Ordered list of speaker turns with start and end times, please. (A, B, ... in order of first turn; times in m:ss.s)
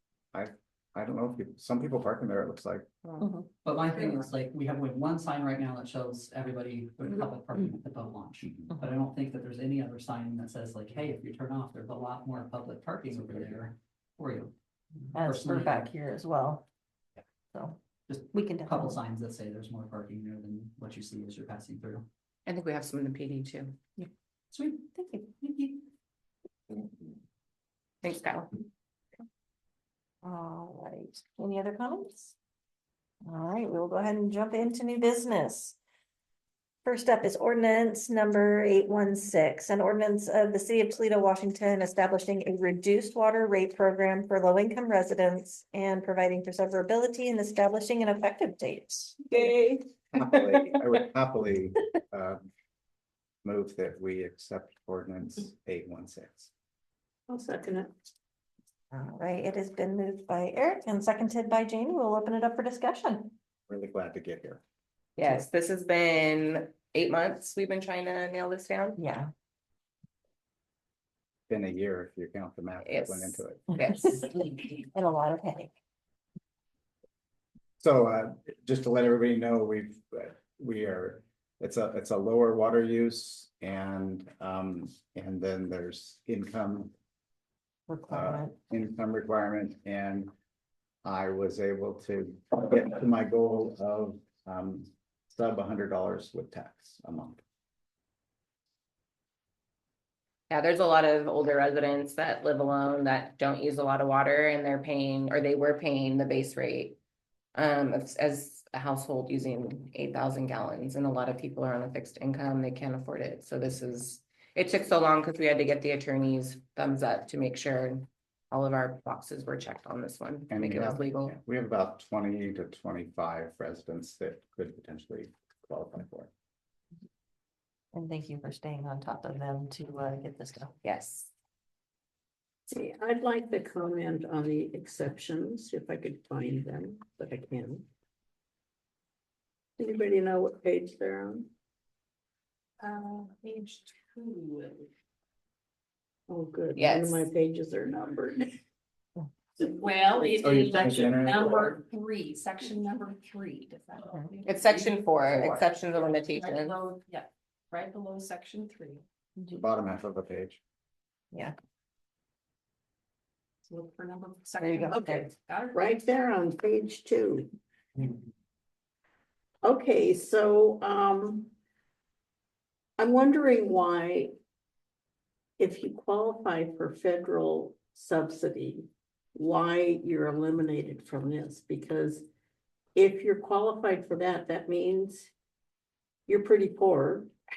0:00.3-0:02.9 A
0:03.0-0:03.3 B
0:03.2-0:03.5 C
0:03.6-0:14.5 D
0:13.3-0:13.5 A
0:15.1-0:15.9 D
0:15.1-0:16.6 C
0:17.5-0:17.8 C
0:18.1-0:22.1 D
0:18.3-0:19.0 C
0:22.5-0:23.8 B
0:24.5-0:25.8 D
0:28.0-0:28.5 B
0:30.2-0:32.3 C
0:33.2-0:35.8 C
0:36.8-0:49.2 C
0:49.3-0:49.8 B
0:50.1-0:52.5 A
0:53.4-0:56.5 A
0:57.3-0:57.9 E
0:58.9-1:03.4 C
1:03.7-1:04.6 A
1:05.2-1:09.0 B
1:09.0-1:09.3 C
1:11.5-1:13.7 A
1:12.8-1:14.6 B
1:14.8-1:15.7 C
1:17.8-1:26.9 A
1:27.9-1:28.6 C
1:28.1-1:30.3 A
1:31.0-1:37.4 A
1:40.5-1:47.0 B
1:47.6-2:01.4 B
2:00.5-2:06.3 A
2:07.9-2:10.8 C
2:10.8-2:11.3 B
2:12.7-2:17.9 E
2:19.8-2:21.5 E
2:22.8-2:24.9 F
2:26.3-2:28.6 E
2:26.8-2:27.3 B
2:29.6-2:30.4 E
2:29.6-2:35.6 F
2:30.4-2:31.8 A
2:34.5-2:36.8 B
2:36.3-2:39.0 F
2:39.6-2:40.6 A
2:43.7-2:46.0 F
2:44.6-2:45.3 C
2:45.7-2:47.5 E
2:49.6-2:51.5 E
2:53.0-2:54.4 E
2:55.6-3:02.3 E
3:03.0-3:05.3 E
3:06.3-3:07.3 E